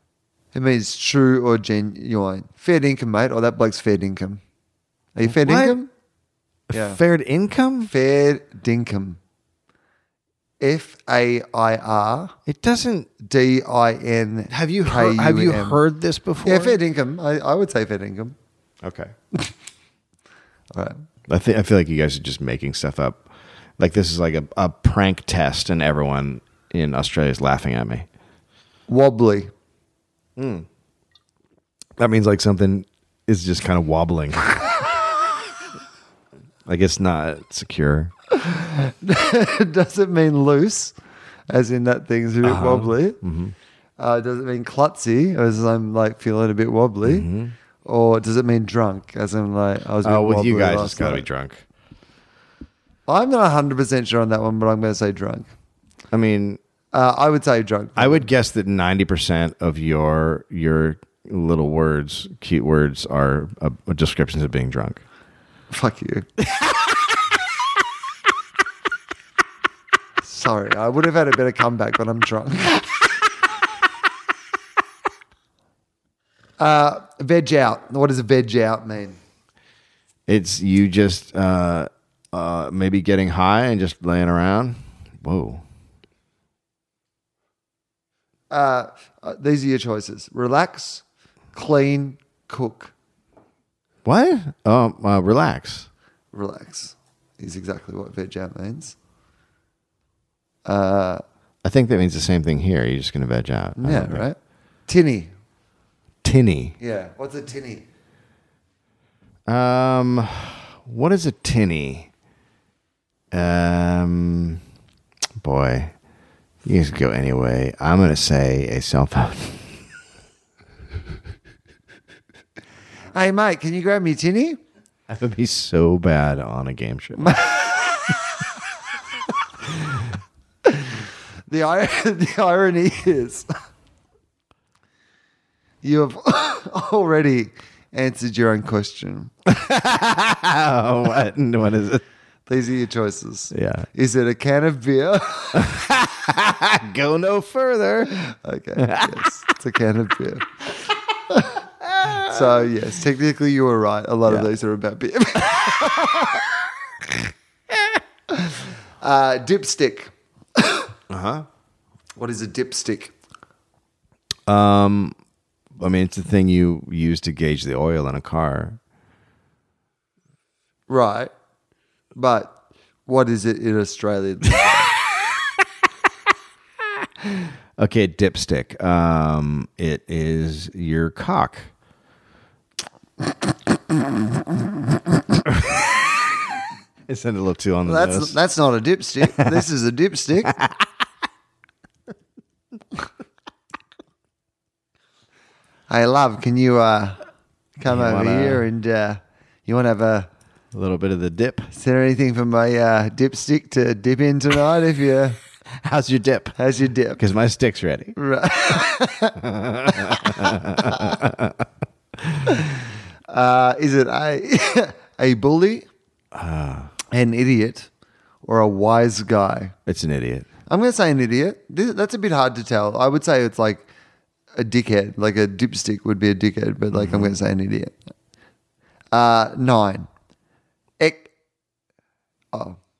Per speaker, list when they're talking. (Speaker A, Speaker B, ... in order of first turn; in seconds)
Speaker A: 0.5-4.4, 5.1-5.9, 6.7-7.0, 7.8-9.2, 10.6-12.3, 13.2-15.8, 16.4-18.3, 20.7-21.0, 28.9-29.5, 38.3-40.9, 41.5-43.2, 44.0-47.3, 47.8-51.2, 53.1-55.5, 56.9-58.3, 65.7-66.3, 70.2-73.0, 76.6-79.2, 88.5-92.9, 96.3-99.0, 100.7-101.2, 103.8-105.3, 106.8-107.8, 123.1-124.6, 127.2-127.9, 130.7-133.5, 135.8-139.3, 142.5-145.7, 148.2-150.5, 151.3-156.5, 158.3-160.9, 162.2-163.1, 170.9-171.3, 172.1-172.5, 173.1-174.9, 187.8-190.6, 195.9-197.2, 197.8-200.3, 201.7-205.4, 206.6-207.2, 208.2-209.4, 209.9-211.2, 213.3-215.9, 217.1-217.9, 218.4-219.7, 220.7-223.9, 224.6-227.9, 229.1-230.1, 231.0-231.3, 232.5-232.8
Speaker B: 5.2-5.8, 6.7-7.9, 12.5-13.1, 14.5-16.8, 18.8-19.1, 21.3-23.2, 23.8-28.1, 30.4-30.7, 32.0-34.9, 36.6-38.1, 42.4-43.5, 47.0-47.5, 50.0-51.6, 56.1-56.6, 58.0-65.0, 80.3-85.6, 94.0-95.9, 101.6-104.2, 106.2-106.8, 109.5-112.1, 113.3-114.6, 115.4-115.9, 116.6-119.8, 125.1-127.4, 139.5-142.0, 143.5-143.9, 145.5-148.2, 148.8-149.2, 151.8-152.6, 161.1-161.4, 164.5-165.1, 165.7-168.8, 177.4-181.7, 187.1-188.3, 189.3-189.6, 190.4-190.8, 197.8-198.6, 200.7-201.7, 205.7-206.6, 207.2-208.2, 209.4-211.7, 212.2-212.5, 216.3-216.9, 219.8-220.5, 226.9-227.3